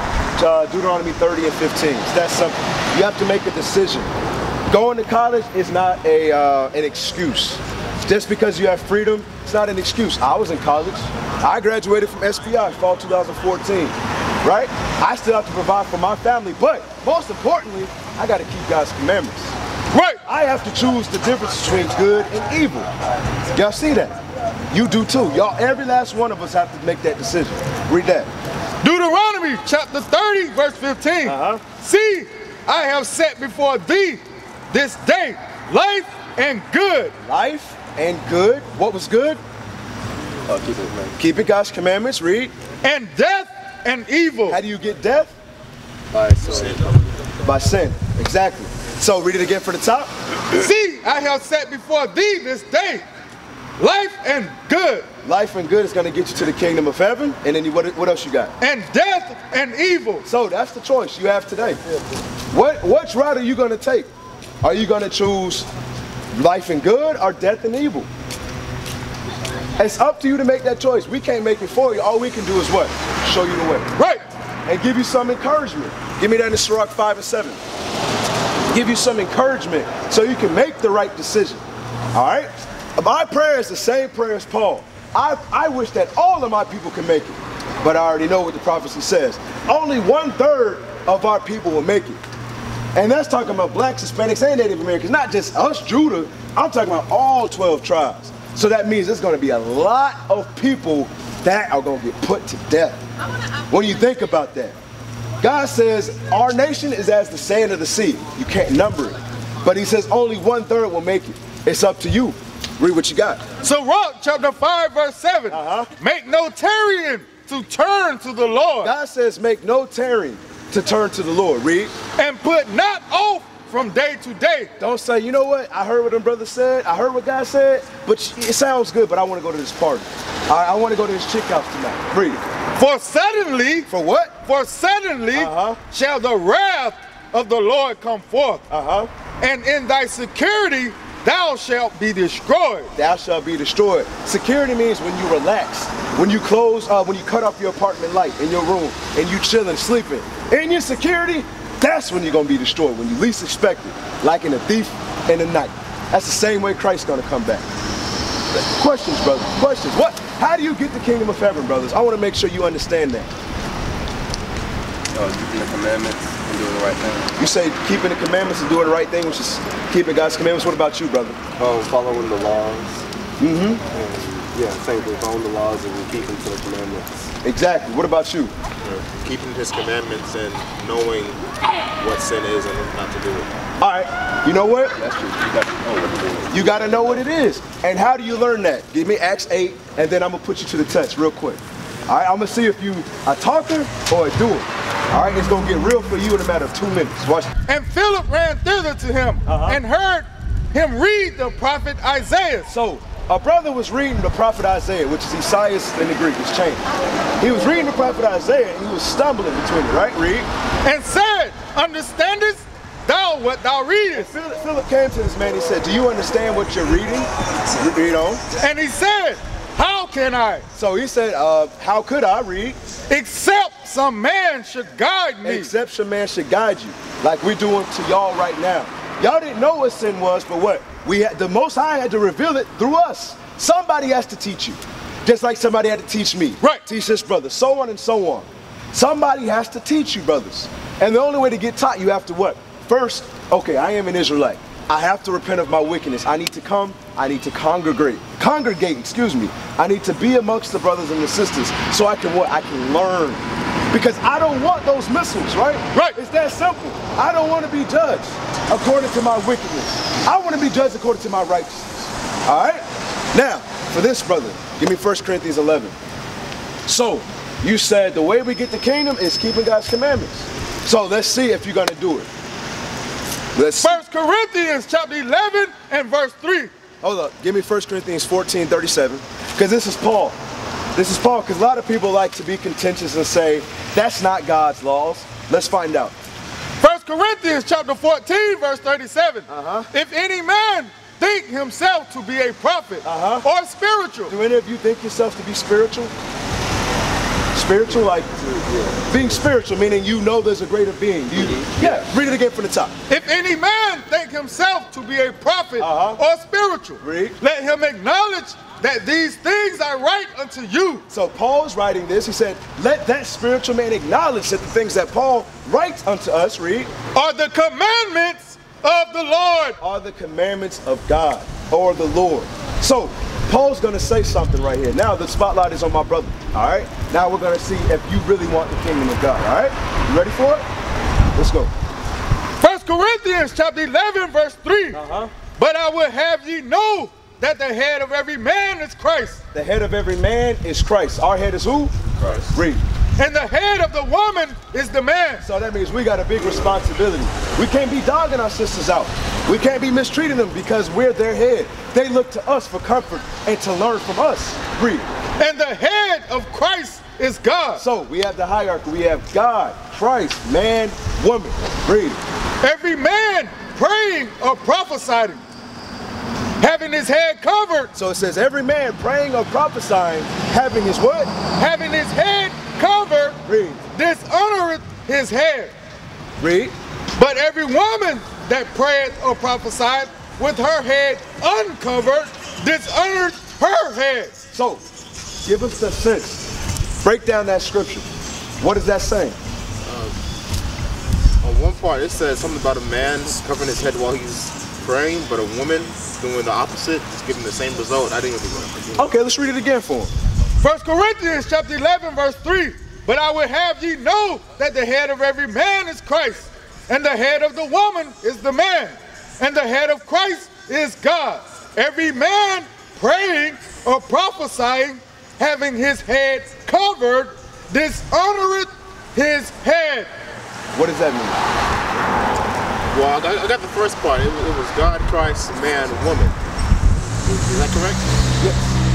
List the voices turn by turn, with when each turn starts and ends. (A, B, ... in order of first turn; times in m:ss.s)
0:00.4-0:04.1 A
0:04.7-0:19.6 A
0:19.9-0:20.2 B
0:20.2-0:22.9 A
0:23.5-0:24.2 A
0:24.7-0:28.3 A
0:28.8-0:37.1 B
0:31.2-0:31.6 A
0:37.2-0:39.4 A
0:40.5-0:41.1 C
0:41.2-0:42.5 A
0:42.8-0:44.6 B
0:44.5-0:45.4 A
0:46.1-0:46.8 C
0:46.3-0:46.9 D
0:47.4-0:50.1 A
0:50.5-0:53.0 B
0:53.8-0:55.0 B
0:55.2-0:58.5 A
0:58.6-1:00.2 B
1:00.2-1:01.8 A
1:02.5-1:04.1 A
1:04.6-1:05.7 A
1:06.3-1:08.1 A
1:09.8-1:13.9 A
1:14.0-1:14.2 B
1:14.6-1:17.6 A
1:18.7-1:21.6 A
1:22.1-1:32.2 A
1:32.9-1:43.0 A
1:43.7-1:44.8 A
1:45.4-1:53.5 A
1:53.6-1:58.9 B
1:55.5-1:55.9 A
1:58.8-2:01.9 A
2:02.2-2:04.7 B
2:04.8-2:12.4 A
2:12.8-2:13.9 B
2:13.9-2:14.3 A
2:14.4-2:18.6 B
2:15.3-2:15.8 A
2:18.7-2:19.1 A
2:19.4-2:22.9 B
2:22.9-2:37.7 A
2:38.5-2:43.3 A
2:45.1-2:47.3 C
2:47.4-2:51.4 A
2:51.6-2:53.0 C
2:53.4-2:53.8 A
2:53.9-2:57.1 C
2:57.4-2:58.5 A
2:58.8-3:01.4 D
3:02.0-3:03.5 D
3:03.8-3:05.0 A
3:05.0-3:07.2 C
3:06.5-3:17.5 A
3:17.7-3:22.7 B
3:19.4-3:19.8 A
3:22.7-3:26.8 A
3:27.4-3:30.5 A
3:30.8-3:34.3 B
3:34.1-3:38.4 A
3:38.6-3:40.6 B
3:40.7-3:42.8 A
3:43.1-3:45.7 B
3:45.4-4:25.9 A
4:26.8-4:32.3 A
4:33.5-4:34.0 A
4:33.8-4:36.7 B
4:37.0-4:40.4 A
4:40.9-4:46.1 A
4:46.8-4:54.3 B
4:49.5-4:49.9 A
4:53.0-4:53.4 A
4:54.3-4:56.1 A
4:57.5-4:58.3 A
4:58.4-4:59.2 C
4:59.1-5:02.9 A
5:01.5-5:02.0 D
5:03.1-5:11.0 B
5:05.8-5:06.2 A
5:07.0-5:07.4 A
5:11.1-5:16.9 A
5:17.1-5:19.8 B
5:19.8-5:30.6 A
5:31.3-5:31.7 A
5:32.6-5:35.0 B
5:34.9-5:35.3 A
5:35.6-5:39.4 B
5:39.5-5:41.9 A
5:42.2-5:42.5 D
5:42.5-5:42.8 A
5:43.2-5:45.4 B
5:45.4-5:55.0 A
5:55.4-5:57.8 B
5:57.8-6:02.2 A
6:02.6-6:05.4 B
6:06.6-6:07.9 B
6:07.9-6:11.3 A
6:11.6-6:13.4 B
6:13.4-6:13.8 A
6:13.9-6:15.7 B
6:16.4-6:16.7 A
6:17.2-6:24.3 B
6:24.5-6:24.8 A
6:25.4-6:26.4 A
6:27.0-6:28.1 A
6:28.6-6:29.4 A
6:29.8-6:30.1 D
6:31.4-6:39.1 D
6:39.0-6:40.1 A
6:40.6-7:00.1 B
7:00.7-7:01.4 A
7:02.9-7:06.4 D
7:07.2-7:08.1 D
7:08.4-7:08.8 A